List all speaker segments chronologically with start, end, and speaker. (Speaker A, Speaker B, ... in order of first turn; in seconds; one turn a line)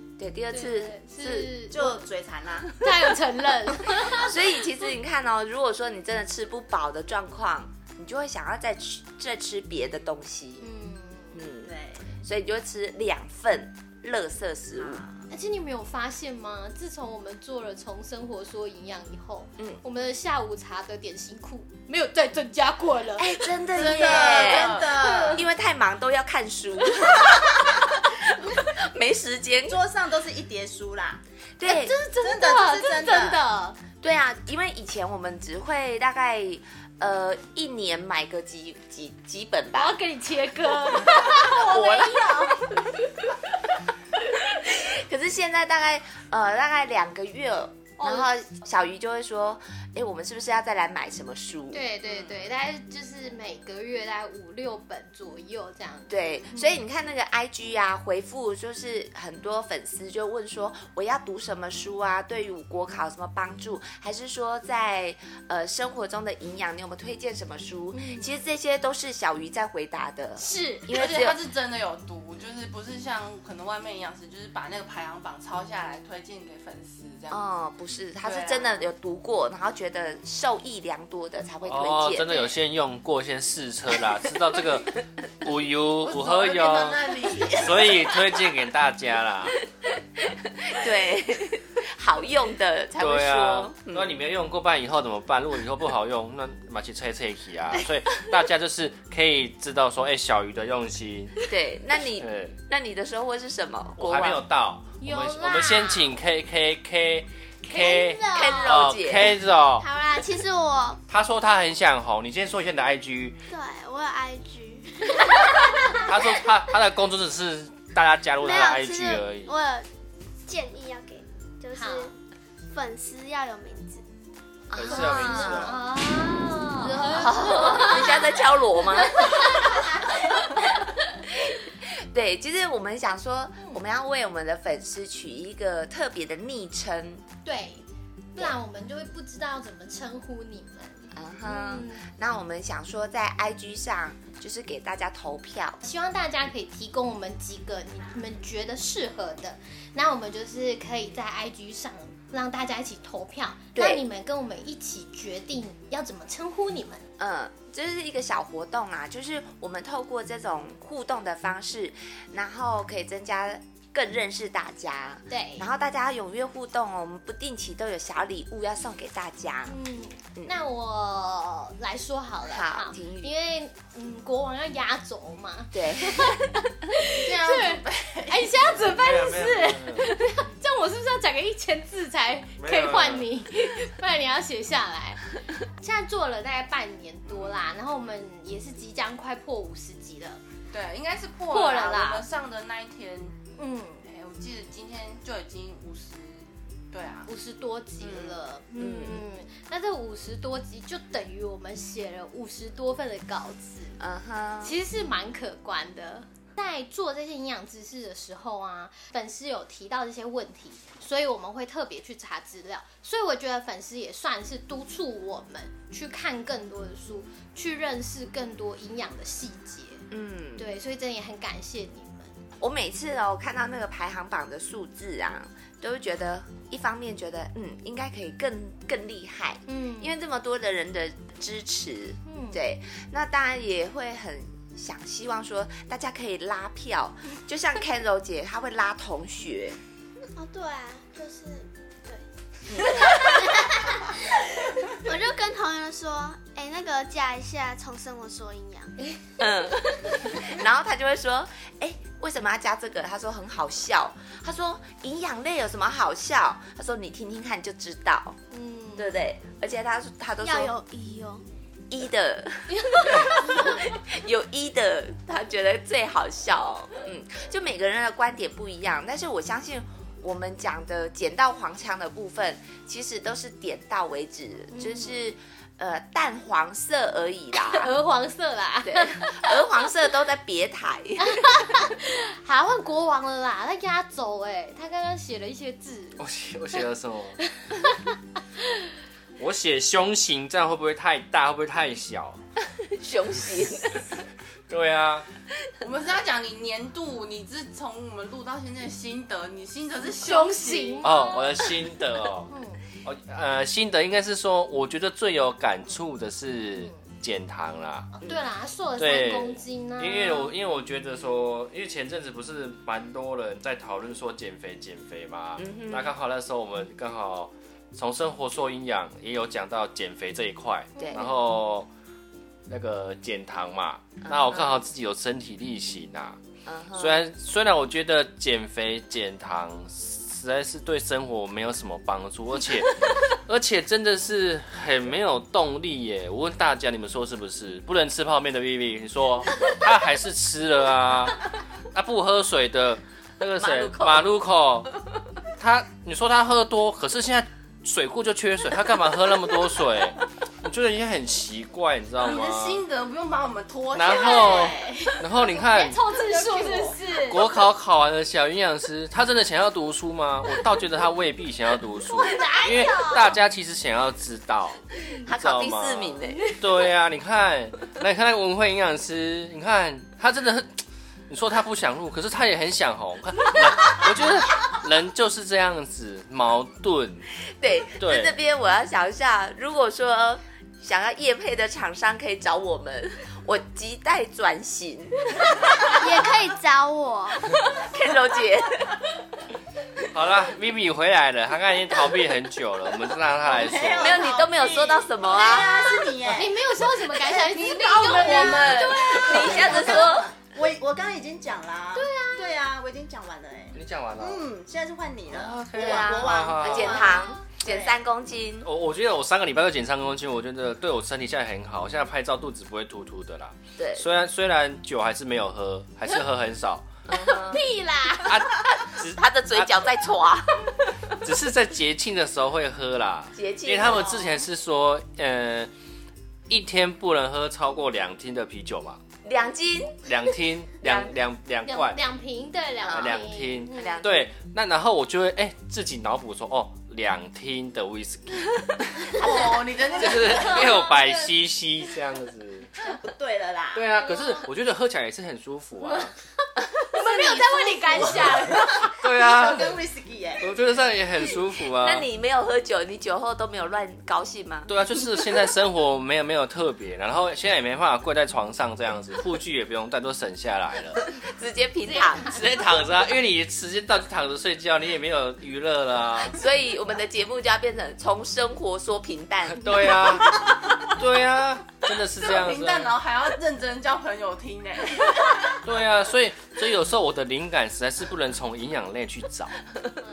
Speaker A: 0.2-1.6
Speaker B: 0.5-2.0
Speaker C: 1.7-2.8
Speaker B: 2.8-4.3
Speaker A: 3.9-10.6
Speaker B: 10.6-11.4
Speaker A: 11.3-15.0
Speaker C: 11.6-12.2
Speaker C: 14.8-15.3
Speaker B: 15.3-25.4
Speaker A: 23.2-29.8
Speaker D: 23.7-24.9
Speaker C: 23.8-25.4
Speaker C: 29.7-31.2
Speaker A: 31.6-31.9
Speaker B: 31.6-33.8
Speaker C: 32.2-33.4
Speaker A: 34.0-40.0
Speaker B: 39.7-42.9
Speaker A: 41.1-42.5
Speaker A: 44.3-51.9
Speaker B: 48.0-48.3
Speaker B: 51.7-56.8
Speaker A: 56.1-71.4
Speaker B: 67.9-68.3
Speaker B: 70.4-70.9
Speaker D: 70.9-77.4
Speaker A: 77.3-82.4
Speaker D: 78.2-78.8
Speaker E: 81.6-89.6
Speaker D: 86.0-88.0
Speaker A: 90.2-94.1
Speaker E: 93.0-101.3
Speaker A: 101.5-104.4
Speaker E: 102.2-102.6
Speaker E: 104.0-109.9
Speaker B: 105.0-106.1
Speaker B: 107.7-108.7
Speaker A: 108.3-109.4
Speaker F: 109.8-111.0
Speaker E: 111.1-113.4
Speaker F: 113.5-116.0
Speaker E: 115.9-119.5
Speaker F: 118.4-119.9
Speaker F: 120.4-122.1
Speaker B: 121.7-122.1
Speaker F: 122.7-124.0
Speaker A: 124.7-125.8
Speaker E: 124.7-125.8
Speaker B: 124.9-130.4
Speaker A: 126.8-130.2
Speaker A: 131.3-137.2
Speaker B: 137.4-137.8
Speaker B: 138.3-142.0
Speaker A: 141.1-145.8
Speaker B: 145.8-157.1
Speaker A: 153.7-154.0
Speaker A: 157.2-169.8
Speaker B: 165.3-165.7
Speaker B: 169.7-190.4
Speaker A: 170.3-170.6
Speaker A: 172.5-173.3
Speaker A: 175.7-176.7
Speaker D: 177.1-178.7
Speaker E: 178.8-180.1
Speaker E: 182.6-183.3
Speaker D: 190.7-193.4
Speaker B: 191.5-192.2
Speaker B: 193.6-194.0
Speaker D: 194.0-197.3
Speaker B: 197.3-204.0
Speaker A: 198.0-199.2
Speaker A: 204.0-204.8
Speaker B: 204.6-220.0
Speaker A: 220.1-220.7
Speaker B: 220.6-222.3
Speaker A: 222.6-239.8
Speaker B: 229.7-230.1
Speaker B: 232.2-232.6
Speaker F: 240.3-242.2
Speaker A: 242.7-243.3
Speaker F: 242.9-244.2
Speaker F: 244.9-248.9
Speaker A: 249.4-258.4
Speaker B: 258.5-259.2
Speaker A: 258.9-260.8
Speaker F: 260.4-261.4
Speaker A: 261.9-277.9
Speaker B: 262.7-263.8
Speaker B: 274.7-275.1
Speaker B: 277.6-279.6
Speaker A: 278.8-281.6
Speaker B: 281.2-286.2
Speaker E: 286.2-287.4
Speaker B: 287.6-288.1
Speaker E: 289.4-292.4
Speaker A: 292.8-294.1
Speaker E: 294.7-295.2
Speaker D: 295.8-301.1
Speaker B: 300.2-301.6
Speaker E: 301.0-302.5
Speaker B: 302.5-302.8
Speaker E: 303.0-308.1
Speaker B: 308.1-310.5
Speaker E: 309.0-321.9
Speaker A: 315.6-316.1
Speaker B: 320.9-321.3
Speaker A: 321.0-321.3
Speaker E: 322.7-326.4
Speaker A: 324.2-324.7
Speaker A: 326.6-327.2
Speaker E: 326.9-345.0
Speaker A: 343.6-344.2
Speaker E: 345.6-352.8
Speaker D: 352.2-355.2
Speaker E: 353.9-356.0
Speaker B: 354.2-354.7
Speaker C: 354.4-354.6
Speaker B: 355.4-357.5
Speaker D: 356.2-357.0
Speaker E: 357.1-377.3
Speaker B: 362.1-363.3
Speaker A: 365.2-366.6
Speaker A: 377.5-386.2
Speaker E: 378.0-378.3
Speaker F: 385.9-387.4
Speaker A: 387.7-388.9
Speaker E: 390.1-394.3
Speaker C: 393.4-408.0
Speaker A: 393.9-395.9
Speaker B: 396.2-400.2
Speaker A: 397.6-400.3
Speaker B: 401.9-402.6
Speaker E: 403.7-404.5
Speaker E: 405.3-407.1
Speaker A: 405.7-408.7
Speaker B: 406.9-407.4
Speaker E: 408.6-416.9
Speaker A: 413.8-414.0
Speaker A: 417.1-417.6
Speaker B: 417.1-418.4
Speaker E: 418.2-419.7
Speaker A: 418.4-420.9
Speaker E: 421.1-425.7
Speaker A: 423.3-424.4
Speaker E: 426.5-429.0
Speaker A: 429.2-430.1
Speaker E: 430.0-432.0
Speaker A: 430.8-431.1
Speaker B: 431.6-434.0
Speaker A: 432.8-434.2
Speaker E: 432.9-439.1
Speaker D: 439.1-441.1
Speaker E: 439.9-442.7
Speaker C: 442.8-443.9
Speaker E: 443.7-446.1
Speaker B: 446.8-449.0
Speaker C: 447.9-450.5
Speaker E: 448.8-449.8
Speaker E: 450.4-452.1
Speaker A: 451.7-454.7
Speaker E: 454.7-461.0
Speaker A: 461.2-462.4
Speaker E: 462.2-466.4
Speaker A: 466.3-470.4
Speaker E: 469.5-472.9
Speaker D: 472.2-475.6
Speaker E: 475.6-479.6